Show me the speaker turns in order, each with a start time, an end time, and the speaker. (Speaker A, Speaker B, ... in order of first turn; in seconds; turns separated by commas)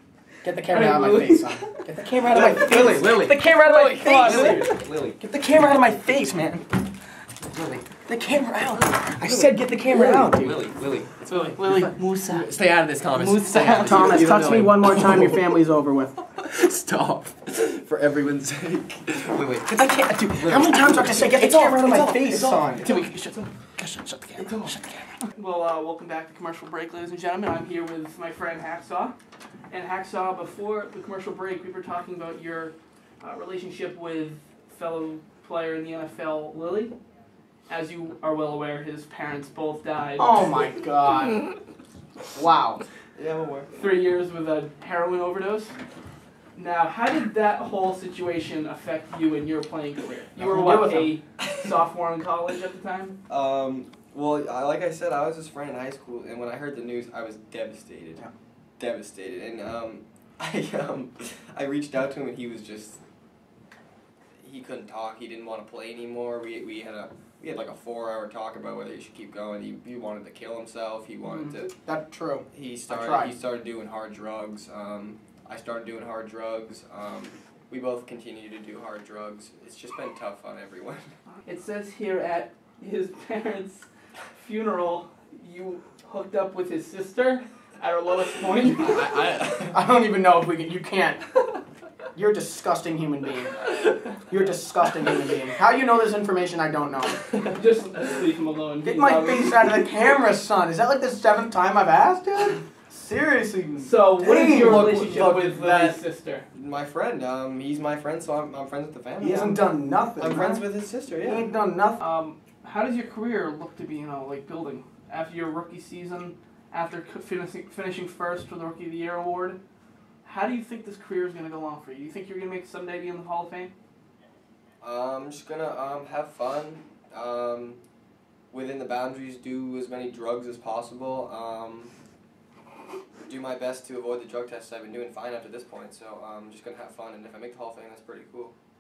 Speaker A: 0.4-6.7, Speaker B: 0.7-1.8, Speaker C: 2.3-3.4, Speaker B: 3.6-4.8, Speaker C: 4.1-5.2, Speaker C: 7.5-7.8, Speaker A: 8.1-10.7, Speaker C: 8.8-11.6, Speaker B: 11.3-12.5, Speaker A: 11.6-11.9, Speaker C: 12.2-15.4, Speaker B: 13.1-14.2, Speaker A: 13.7-16.2, Speaker C: 16.3-19.8, Speaker A: 19.7-22.9, Speaker C: 20.3-23.0, Speaker B: 22.8-23.6, Speaker C: 23.8-24.7, Speaker B: 24.4-29.1, Speaker B: 29.7-36.9, Speaker B: 37.7-40.5, Speaker A: 40.2-41.5, Speaker A: 42.3-42.8, Speaker C: 43.1-43.7, Speaker B: 43.7-45.7, Speaker B: 46.6-53.2, Speaker A: 50.4-51.2, Speaker C: 53.3-58.2, Speaker C: 58.8-63.0, Speaker C: 64.4-71.8, Speaker A: 71.9-73.3, Speaker C: 72.5-81.1, Speaker B: 81.5-89.2, Speaker C: 88.9-89.8, Speaker A: 89.5-91.3, Speaker A: 92.1-97.2, Speaker B: 97.5-99.6, Speaker A: 98.8-106.0, Speaker B: 103.8-106.5, Speaker C: 106.5-111.5, Speaker A: 109.2-110.7, Speaker A: 111.2-112.0, Speaker B: 112.0-119.6, Speaker B: 120.2-123.7, Speaker C: 124.8-127.8, Speaker C: 128.5-131.9, Speaker C: 133.3-138.5